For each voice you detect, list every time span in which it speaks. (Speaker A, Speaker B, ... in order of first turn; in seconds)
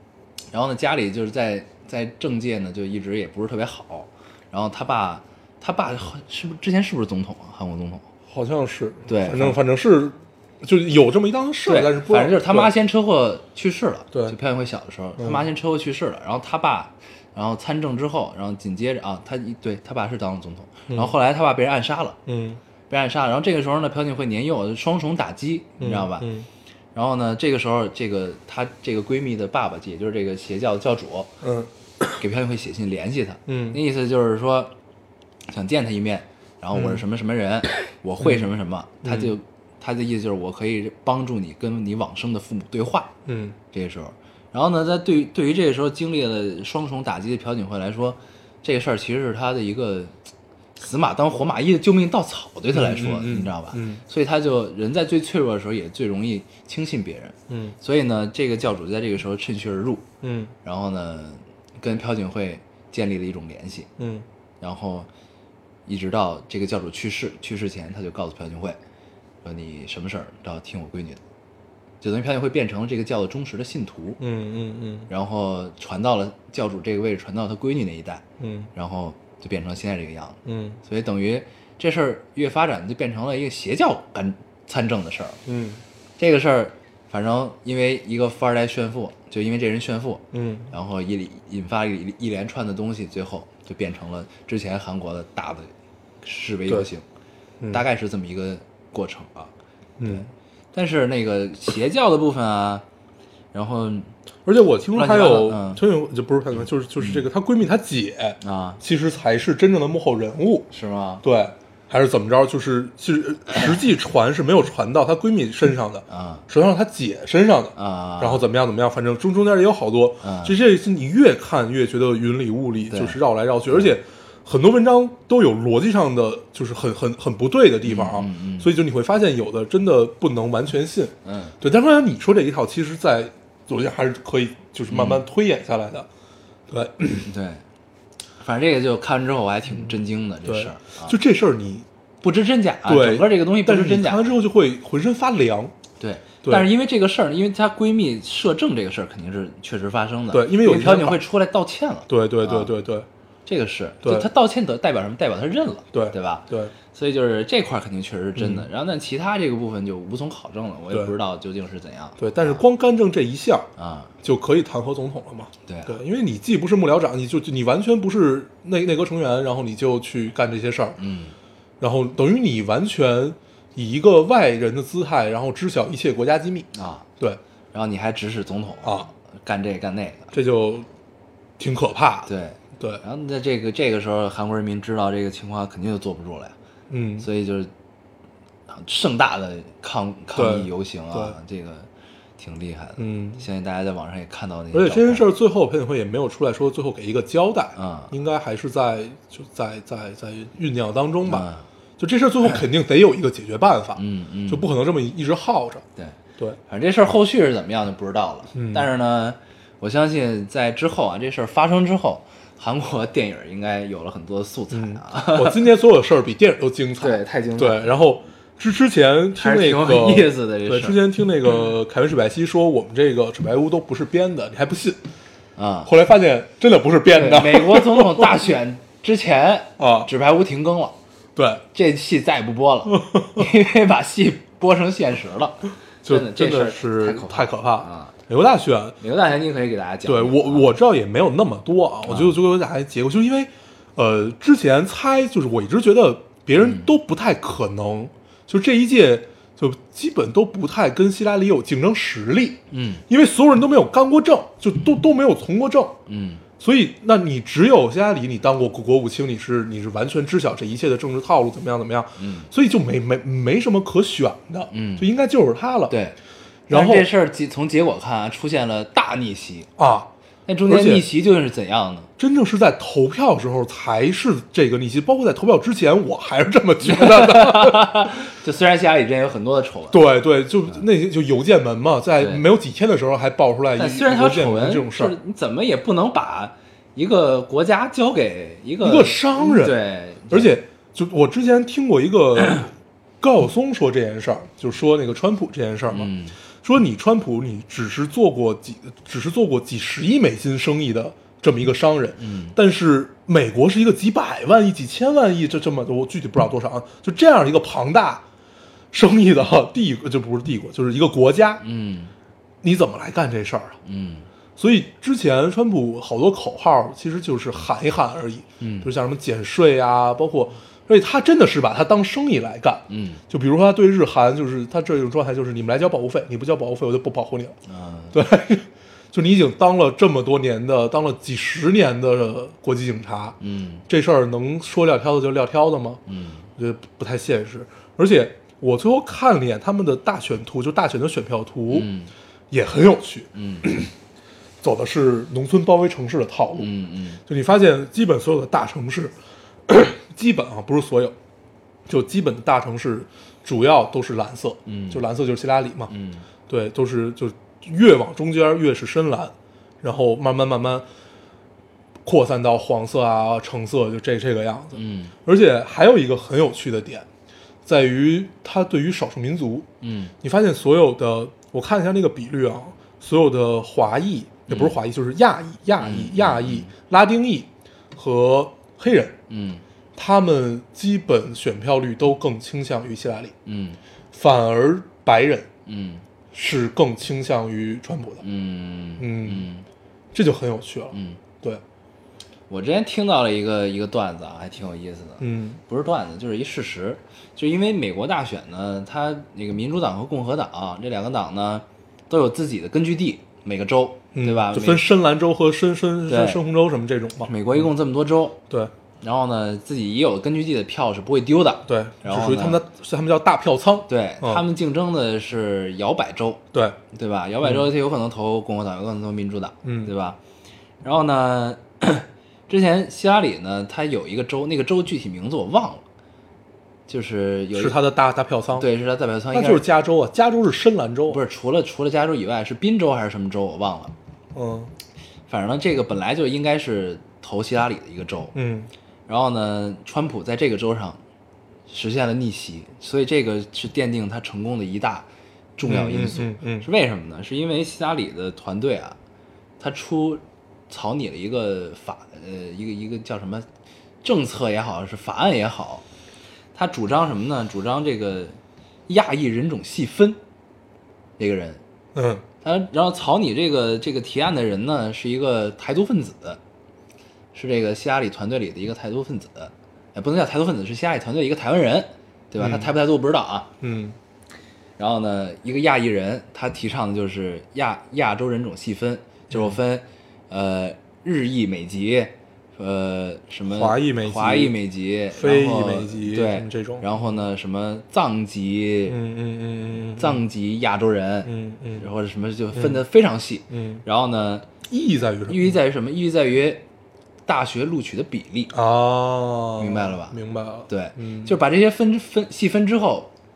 Speaker A: 0.5-8.1, 9.1-9.6, 11.7-22.2, 22.9-26.3, 26.9-31.3, 32.2-34.7, 35.5-43.1, 43.7-50.1, 50.8-60.1, 60.6-63.9, 64.6-65.1, 65.9-68.8, 69.4-71.2, 72.0-74.2, 75.1-78.2, 78.8-85.4, 86.2-97.0, 97.7-99.5, 100.0-102.8, 103.5-104.1, 104.9-105.8, 107.0-107.2, 108.4-108.8, 110.7-111.2, 116.1-116.5, 117.8-118.5, 120.2-120.6, 122.9-123.2, 123.7-123.9, 127.8-128.7, 131.2-131.6, 134.9-135.2, 137.2-137.6, 138.4-141.2, 142.2-144.3, 146.0-152.7, 153.5-162.6, 163.8-164.1, 165.7-166.0, 171.0-171.3, 176.7-177.1, 177.7-180.3, 182.3-186.6, 187.2-187.7, 188.7-195.3, 197.8-198.1, 201.2-201.7, 204.0-204.7, 206.0-215.6, 217.0-217.9, 219.4-221.0, 225.6-225.9, 227.1-231.0, 231.7-238.1, 239.0-240.7, 242.1-242.4, 246.6-246.9, 252.7-253.0, 256.1-256.4, 262.2-262.5, 264.7-265.1, 265.9-266.2, 266.7-269.7, 270.5-272.1, 276.8-280.1, 282.2-282.4, 283.8-290.5, 295.9-296.4, 302.2-302.6, 311.6-312.1, 313.9-314.3, 318.6-318.9, 322.9-323.2, 327.7-328.2, 333.4-333.9, 336.1-336.5, 341.7-342.1, 343.3-343.7, 346.6-347.2, 354.7-355.0, 355.9-356.3, 364.7-365.1, 369.8-370.1, 374.5-374.8, 375.8-376.7, 379.3-379.6, 383.5-383.8, 385.7-386.0, 388.2-389.7, 390.9-391.2, 392.5-404.9, 406.1-406.4, 407.2-408.4, 409.0-412.6, 413.9-416.4, 416.9-420.2, 420.8-425.8, 426.9-427.8, 428.6-429.6, 431.1-433.9, 435.3-438.4, 439.1-441.0, 441.7-449.0, 449.6-453.5, 454.0-455.9, 456.6-460.2, 461.2-461.6, 462.4-466.4, 467.3-473.5, 474.8-489.0, 489.9-494.5, 495.3-496.6, 497.3-498.5, 499.6-500.2, 500.7-503.1
Speaker B: 8.3-12.7, 15.2-15.4, 20.9-21.1, 22.3-22.6, 25.8-26.5, 31.4-32.2, 33.5-33.8, 36.7-37.0, 38.2-38.5, 39.0-39.3, 43.3-43.6, 52.7-54.0, 57.5-57.8, 60.2-60.5, 64.0-64.2, 74.2-75.1, 78.4-78.7, 80.5-80.8, 85.5-85.8, 90.3-90.7, 100.0-100.3, 104.5-110.7, 111.2-136.1, 136.7-137.3, 140.4-141.9, 142.9-145.7, 150.3-151.2, 152.1-153.1, 154.0-154.3, 155.9-156.7, 158.4-158.7, 162.2-163.7, 164.2-171.0, 171.8-176.7, 178.8-179.1, 180.3-180.9, 181.6-183.0, 186.9-187.3, 190.3-191.4, 193.0-193.4, 194.7-205.8, 208.6-208.9, 214.7-225.0, 225.8-228.3, 229.8-230.1, 231.4-231.6, 232.9-233.5, 236.0-239.0, 240.1-256.0, 256.6-265.9, 266.7-267.1, 269.8-270.1, 270.7-271.0, 272.2-278.2, 279.9-285.2, 288.8-296.1, 296.6-308.2, 308.9-311.6, 312.6-313.8, 314.6-327.6, 328.1-336.0, 336.6-341.9, 342.5-343.9, 344.6-346.7, 347.3-349.1, 349.7-351.2, 351.9-355.9, 356.5-360.9, 362.1-367.1, 367.6-369.7, 370.2-379.2, 380.0-383.3, 384.1-385.5, 386.3-388.2, 389.0-389.5, 390.1-391.6, 395.2-395.6, 404.1-407.3, 411.7-414.4, 419.6-419.9, 427.5-428.7, 429.3-431.2, 434.3-434.7, 438.4-438.7, 445.6-446.7, 461.9-462.2, 472.4-472.7, 473.6-474.0, 483.5-484.6, 485.1-486.9, 488.9-490.2, 491.2-491.9, 492.5-492.8, 493.5-493.8, 494.7-495.6, 498.5-501.4